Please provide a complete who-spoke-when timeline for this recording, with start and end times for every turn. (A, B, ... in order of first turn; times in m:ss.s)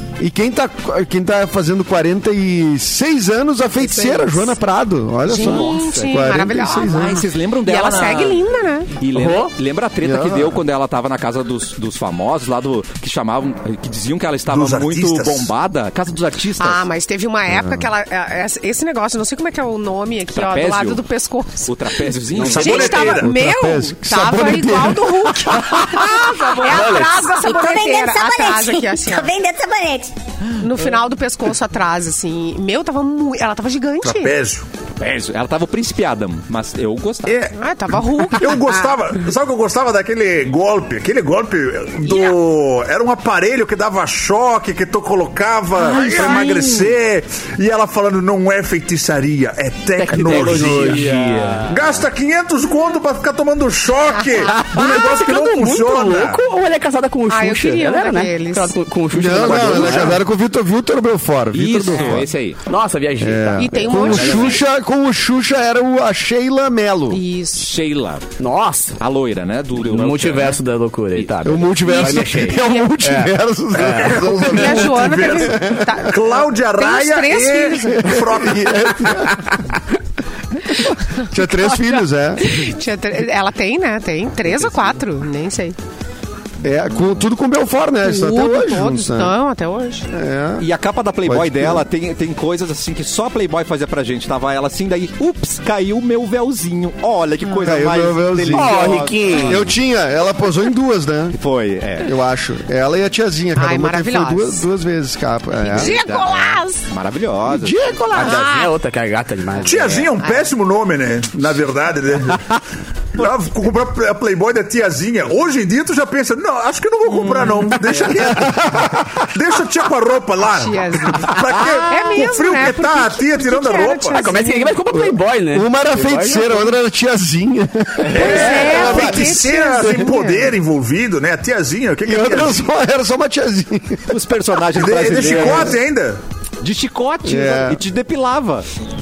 0:00.2-0:07.2 A
0:05.3-0:08.9 B
0:05.4-0:08.4 C
0:09.0-0:16.9 C
0:09.1-0:09.5 D
0:10.0-0:10.6 A
0:14.5-0:15.5 E
0:16.6-0:21.8 B
0:17.5-0:17.9 A
0:20.3-0:21.0 C
0:21.6-0:23.0 C
0:22.4-0:22.7 D
0:22.4-0:23.3 E
0:22.4-0:29.3 B
0:23.1-0:26.2 A
0:26.6-0:27.3 D
0:27.3-0:30.1 F
0:30.6-0:34.3 B
0:34.0-0:34.6 E
0:35.0-0:37.4 C
0:37.3-0:37.6 E
0:37.6-0:38.8 B
0:38.1-0:51.1 E
0:42.1-0:42.3 B
0:45.8-0:47.0 C
0:50.0-0:51.8 D
0:50.1-0:51.8 C
0:51.6-0:56.4 E
0:54.2-0:54.4 B
0:54.5-1:00.2 D
0:57.3-0:58.8 B
0:59.1-1:02.3 A
1:01.5-1:02.6 C
1:02.7-1:04.6 D
1:03.2-1:07.2 A
1:03.6-1:04.6 B
1:07.1-1:07.7 B
1:07.6-1:08.3 C
1:08.4-1:09.0 D
1:09.0-1:10.6 C
1:09.8-1:14.2 D
1:11.2-1:12.4 C
1:11.4-1:16.0 A
1:13.8-1:19.0 E
1:14.5-1:18.2 B
1:17.9-1:19.6 A
1:20.8-1:22.6 A
1:21.1-1:25.8 B
1:24.5-1:24.9 C
1:26.6-1:29.4 A
1:28.0-1:30.1 B
1:30.1-1:30.7 A
1:30.6-1:39.6 C
1:31.2-1:31.9 A
1:37.6-1:41.4 A
1:38.5-1:39.7 D
1:41.4-1:42.2 C
1:42.0-1:46.0 A
1:43.6-1:44.6 B
1:45.6-1:46.8 B
1:45.8-1:47.8 C
1:47.5-1:48.5 A
1:48.1-1:50.2 D
1:48.2-1:48.7 B
1:49.6-1:52.6 E
1:53.2-2:04.3 E
1:58.2-1:59.0 A
2:00.5-2:04.8 B
2:04.1-2:06.7 D
2:04.9-2:09.3 A
2:08.1-2:12.6 E
2:08.1-2:10.5 B
2:12.0-2:14.2 A
2:14.1-2:15.8 C
2:14.8-2:16.2 E
2:16.6-2:18.7 C
2:17.2-2:17.8 A